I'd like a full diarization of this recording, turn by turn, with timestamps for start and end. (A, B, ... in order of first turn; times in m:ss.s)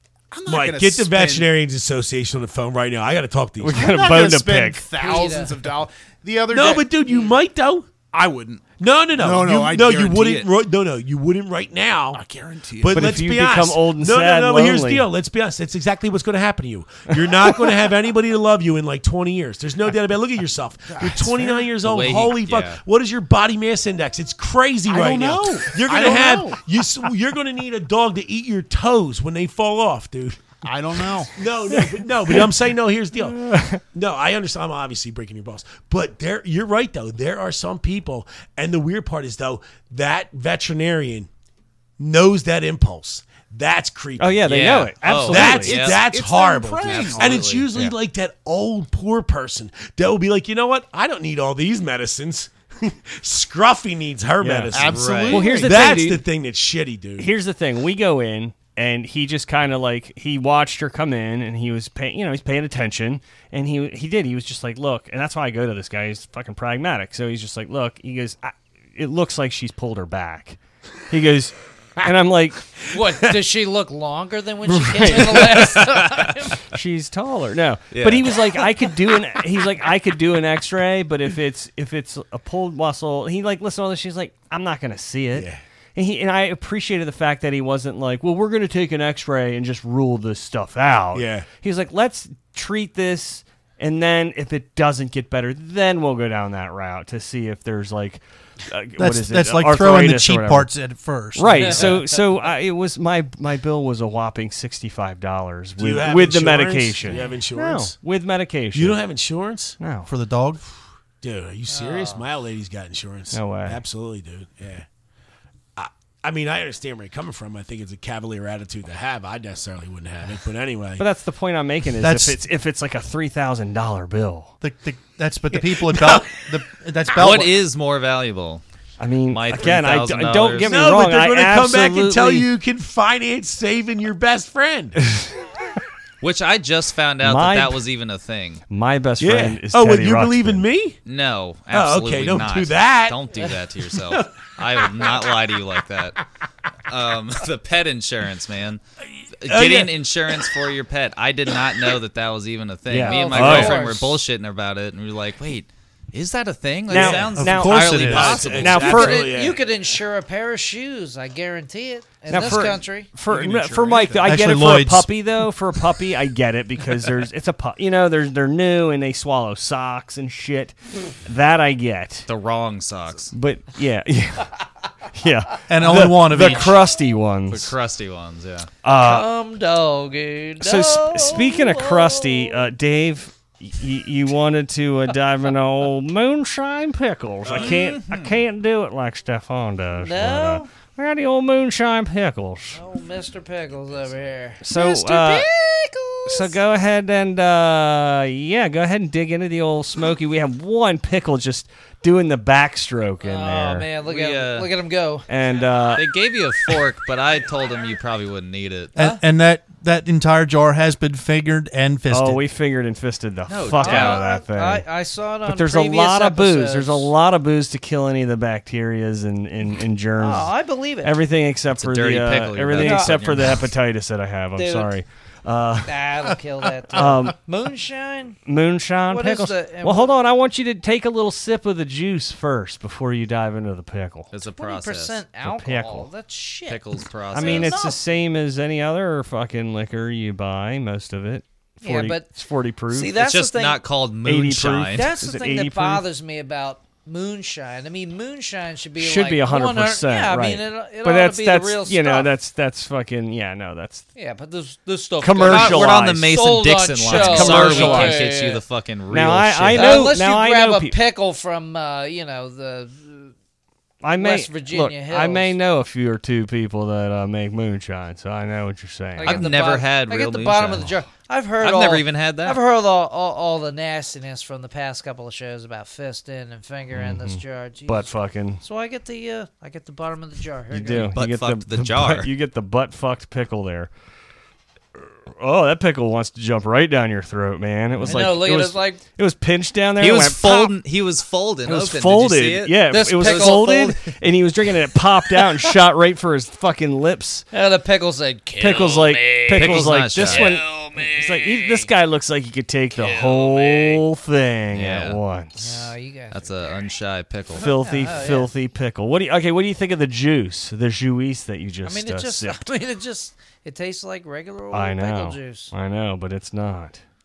0:00.3-0:01.5 A
0:00.5-0:03.8 B
0:03.6-0:04.8 C
0:03.7-0:06.9 A
0:05.0-0:05.6 D
0:06.5-0:07.9 B
0:07.1-0:07.3 D
0:08.1-0:10.5 A
0:08.8-0:12.2 B
0:12.1-0:13.2 A
0:12.8-0:30.6 B
0:12.9-0:15.1 C
0:20.9-0:21.7 A
0:21.8-0:22.8 E
0:24.9-0:26.6 A
0:30.6-0:31.3 A
0:31.3-0:41.3 B
0:33.3-0:33.8 C
0:42.0-0:57.3 B
0:44.2-0:45.7 C
0:44.4-0:46.1 E
0:45.5-0:47.5 A
0:46.8-0:47.7 E
0:54.4-0:56.2 C
0:54.7-0:56.0 A
0:54.8-0:55.6 E
0:57.2-1:10.6 C
1:11.1-1:12.6 C
1:12.9-1:16.6 D
1:14.6-1:15.8 C
1:16.7-1:40.7 C
1:17.9-1:18.4 E
1:25.3-1:25.6 B
1:31.1-1:31.5 B
1:39.0-1:41.8 F
1:41.4-1:49.0 C
1:41.5-1:42.1 D
1:45.8-1:48.0 B
1:47.1-1:47.4 D
1:48.7-1:49.8 B
1:49.8-1:50.1 C
1:50.1-1:50.6 F
1:51.2-1:54.8 B
1:51.7-1:52.2 D
1:53.3-1:53.8 C
1:55.8-2:01.0 B
2:01.0-2:04.5 C
2:02.0-2:02.4 F
2:04.6-2:07.6 F
2:05.5-2:06.4 B
2:07.1-2:08.6 E
2:09.0-2:12.5 C
2:09.3-2:10.7 E
2:10.6-2:15.0 B
2:16.2-2:18.6 E
2:17.2-2:17.8 C
2:18.7-2:20.6 C
2:19.2-2:21.0 B
2:21.0-2:26.2 E
2:21.7-2:25.3 B
2:26.9-2:28.8 E
2:29.4-2:39.1 E
2:29.4-2:30.4 B
2:32.9-2:33.8 C
2:33.0-2:34.2 D
2:36.9-2:39.3 C
2:36.9-2:38.5 F
2:36.9-2:39.6 B
2:38.8-2:43.1 D
2:42.3-2:52.3 C
2:43.3-2:44.3 A
2:44.2-2:45.2 F
2:52.3-2:53.3 E
2:53.3-2:54.5 C
2:55.1-2:57.7 C
2:55.7-2:56.8 F
2:56.4-2:56.7 E
2:57.5-2:58.7 E
2:58.8-2:59.3 C
2:58.9-3:02.6 D
3:00.6-3:12.8 C
3:07.4-3:07.9 B
3:07.6-3:08.4 E
3:10.0-3:10.7 D
3:12.7-3:16.5 D
3:14.6-3:15.5 C
3:16.2-3:23.9 C
3:23.2-3:25.2 D
3:24.0-3:24.7 E
3:25.3-3:26.1 C
3:25.9-3:29.2 E
3:29.0-3:32.4 F
3:32.1-3:34.8 C
3:33.5-3:34.2 E
3:33.7-3:37.1 D
3:35.4-3:46.0 C
3:40.2-3:41.2 D
3:41.8-3:43.6 E
3:42.8-3:43.3 D
3:44.6-3:44.9 D
3:45.8-3:48.4 D
3:46.9-3:47.4 C
3:48.4-3:54.3 C
3:49.1-3:50.2 D
3:54.3-3:55.2 E
3:54.6-3:58.0 D
3:55.4-3:56.1 C
3:56.7-3:57.7 E
3:57.3-4:03.2 C
4:01.8-4:02.3 D
4:02.9-4:03.8 D
4:03.1-4:05.1 E
4:04.2-4:06.0 C
4:04.9-4:12.3 D
4:09.0-4:14.1 C
4:14.1-4:18.6 D
4:15.2-4:16.3 C
4:15.4-4:20.1 E
4:17.0-4:18.2 C
4:19.1-4:21.0 C
4:19.7-4:23.3 D
4:24.0-4:29.5 C
4:24.2-4:25.6 D
4:29.2-4:41.2 D
4:29.2-4:30.9 E
4:31.6-4:32.6 E
4:36.9-4:38.6 C
4:40.7-4:43.9 C
4:40.9-4:42.3 E
4:45.4-4:50.8 C
4:48.0-4:49.0 D
4:50.0-4:53.7 E
4:51.6-4:57.4 C
4:52.9-4:54.0 D
4:55.4-4:55.6 D
4:57.5-5:01.9 D
4:58.6-5:05.9 C
4:59.5-5:00.6 E
5:03.0-5:03.4 E
5:03.1-5:04.0 D
5:04.7-5:05.2 E
5:05.6-5:06.8 D
5:06.3-5:07.7 E
5:07.6-5:12.6 C
5:07.6-5:08.5 D
5:11.8-5:15.7 D
5:14.7-5:17.0 C